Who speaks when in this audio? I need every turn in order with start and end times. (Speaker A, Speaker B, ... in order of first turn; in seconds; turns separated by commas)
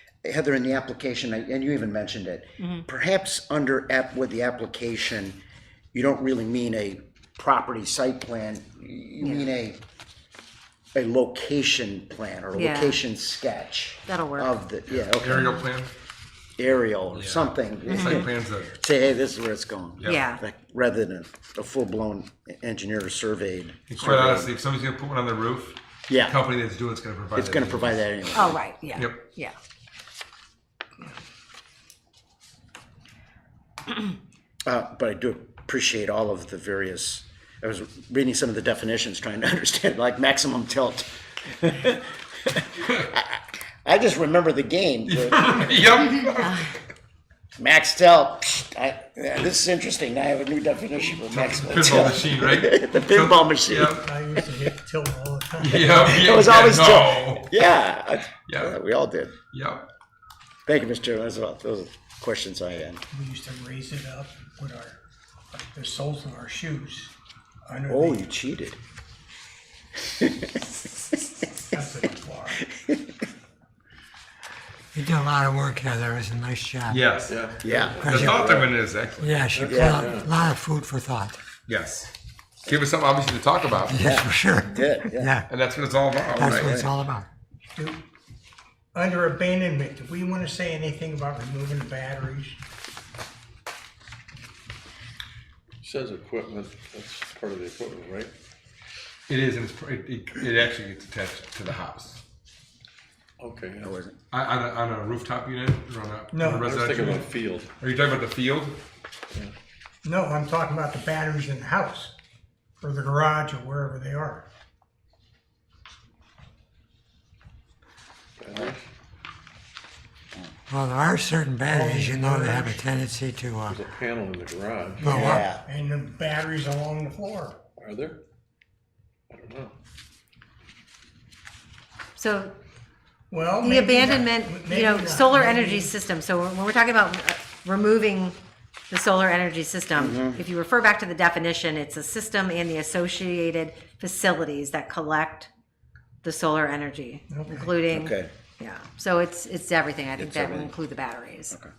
Speaker A: 0.2-5.4, Speaker B: 2.6-2.9, Speaker A: 5.9-9.8, Speaker B: 9.2-9.5, Speaker A: 10.9-15.5, Speaker B: 12.5-13.0, Speaker B: 14.1-14.7, Speaker C: 14.9-15.9, Speaker B: 15.4-15.7, Speaker A: 16.6-24.5, Speaker C: 17.1-18.8, Speaker B: 17.9-18.4, Speaker B: 20.1-20.4, Speaker C: 23.9-28.0, Speaker A: 26.1-26.4, Speaker A: 27.4-28.6, Speaker B: 28.3-29.6, Speaker C: 28.9-29.2, Speaker A: 34.7-45.6, Speaker C: 45.1-46.7, Speaker A: 47.6-54.1, Speaker C: 51.3-54.1, Speaker D: 54.0-56.2, Speaker C: 55.6-57.5, Speaker A: 56.0-59.4, Speaker C: 58.4-58.8, Speaker C: 59.5-59.9, Speaker A: 60.7-63.0, Speaker D: 63.1-65.0, Speaker D: 65.5-67.1, Speaker D: 67.7-68.3, Speaker A: 67.9-68.8, Speaker A: 70.2-70.5, Speaker D: 71.7-72.6, Speaker E: 75.0-77.4, Speaker C: 76.9-79.3, Speaker F: 77.3-77.8, Speaker A: 77.6-78.7, Speaker E: 77.9-78.6, Speaker E: 79.2-81.4, Speaker F: 79.5-80.4, Speaker A: 79.6-80.0, Speaker C: 81.7-82.1, Speaker C: 82.6-84.0, Speaker E: 83.9-85.5, Speaker A: 84.0-85.3, Speaker C: 85.5-86.7, Speaker E: 86.4-87.3, Speaker A: 86.4-86.9, Speaker D: 87.8-88.0, Speaker D: 88.9-92.6, Speaker F: 95.8-98.3, Speaker C: 99.3-102.2, Speaker F: 103.4-104.0, Speaker A: 103.8-104.2, Speaker C: 104.3-108.8, Speaker D: 106.3-107.2, Speaker F: 106.6-107.7, Speaker D: 110.0-112.2, Speaker D: 112.8-114.5, Speaker F: 118.4-118.9, Speaker E: 120.7-123.8, Speaker D: 121.7-122.8, Speaker F: 123.7-125.3, Speaker E: 125.0-125.5, Speaker D: 125.1-127.6, Speaker A: 125.1-125.7, Speaker F: 127.8-128.2, Speaker F: 129.3-129.8, Speaker B: 132.2-132.6, Speaker D: 133.3-135.9, Speaker B: 133.6-138.4, Speaker B: 138.9-145.5, Speaker A: 139.9-140.4, Speaker B: 146.2-151.6, Speaker D: 147.3-147.7, Speaker A: 147.9-148.3, Speaker A: 150.2-150.7